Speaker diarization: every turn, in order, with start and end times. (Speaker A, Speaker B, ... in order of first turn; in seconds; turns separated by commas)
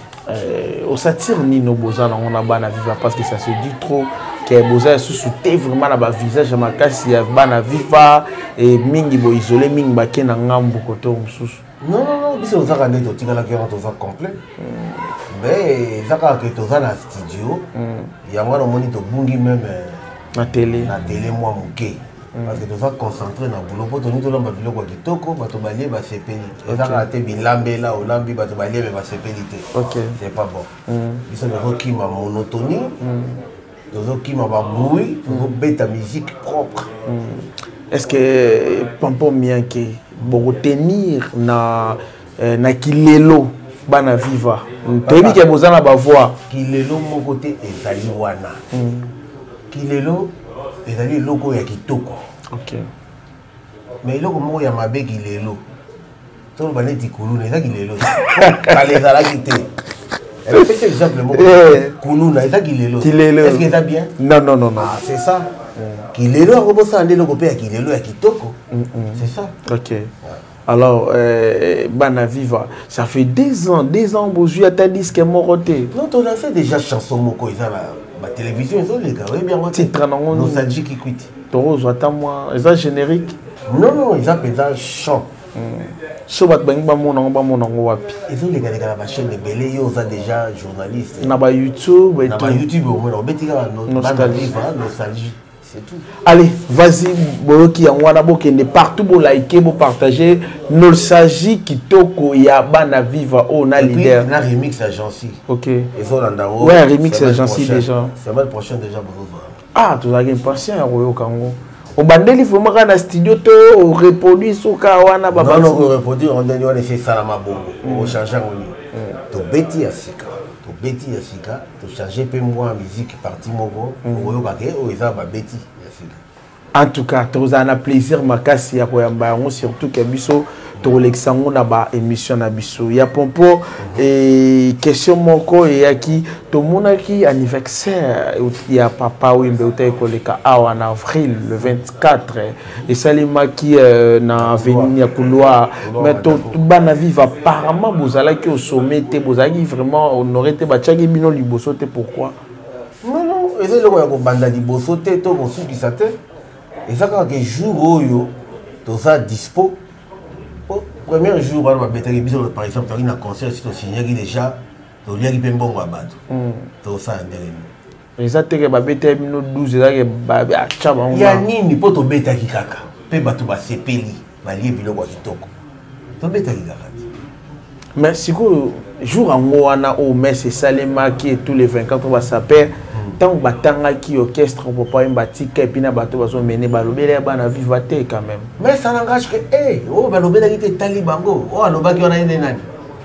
Speaker A: 0.3-11.6, Speaker B: 11.8-14.4, Speaker A: 14.6-15.1, Speaker B: 15.3-17.6, Speaker A: 17.8-18.1, Speaker B: 18.2-20.1, Speaker A: 20.3-20.9, Speaker B: 20.7-30.7, Speaker A: 22.4-22.6, Speaker A: 26.7-27.1, Speaker A: 29.7-30.2, Speaker A: 30.9-31.2, Speaker B: 31.3-33.0, Speaker A: 33.0-33.4, Speaker B: 33.9-36.9, Speaker A: 35.3-35.5, Speaker A: 37.1-46.4, Speaker B: 45.1-45.4, Speaker B: 46.5-48.6, Speaker A: 48.7-49.1, Speaker B: 49.7-50.3, Speaker B: 50.9-52.2, Speaker A: 52.5-52.9, Speaker B: 54.0-55.6, Speaker B: 56.6-59.7, Speaker A: 58.2-58.9, Speaker B: 60.5-64.1, Speaker A: 61.3-62.0, Speaker A: 63.0-63.6, Speaker A: 64.2-65.0, Speaker B: 64.8-65.5, Speaker A: 65.8-66.0, Speaker B: 66.1-68.6, Speaker A: 68.7-70.1, Speaker B: 69.2-69.5, Speaker A: 70.7-75.9, Speaker B: 75.9-81.3, Speaker A: 79.7-80.7, Speaker A: 81.5-83.4, Speaker B: 83.7-85.3, Speaker A: 85.5-88.2, Speaker B: 88.3-91.4, Speaker A: 91.2-92.6, Speaker B: 92.3-96.1, Speaker A: 93.9-94.5, Speaker A: 96.2-104.3, Speaker B: 103.8-105.4, Speaker A: 105.5-105.9, Speaker B: 106.0-109.6, Speaker A: 106.6-108.1, Speaker A: 109.8-115.9, Speaker B: 115.3-118.8, Speaker A: 117.8-118.2, Speaker B: 119.3-126.2, Speaker A: 124.0-124.4, Speaker A: 126.7-152.3, Speaker B: 144.4-146.6, Speaker B: 153.0-156.2, Speaker B: 156.9-158.3, Speaker B: 158.8-159.8, Speaker B: 160.7-166.2, Speaker A: 166.3-166.7, Speaker B: 166.8-167.7, Speaker A: 168.2-171.4, Speaker B: 171.1-175.5, Speaker B: 176.2-177.1, Speaker A: 178.0-188.5, Speaker B: 182.9-183.2, Speaker B: 188.6-192.7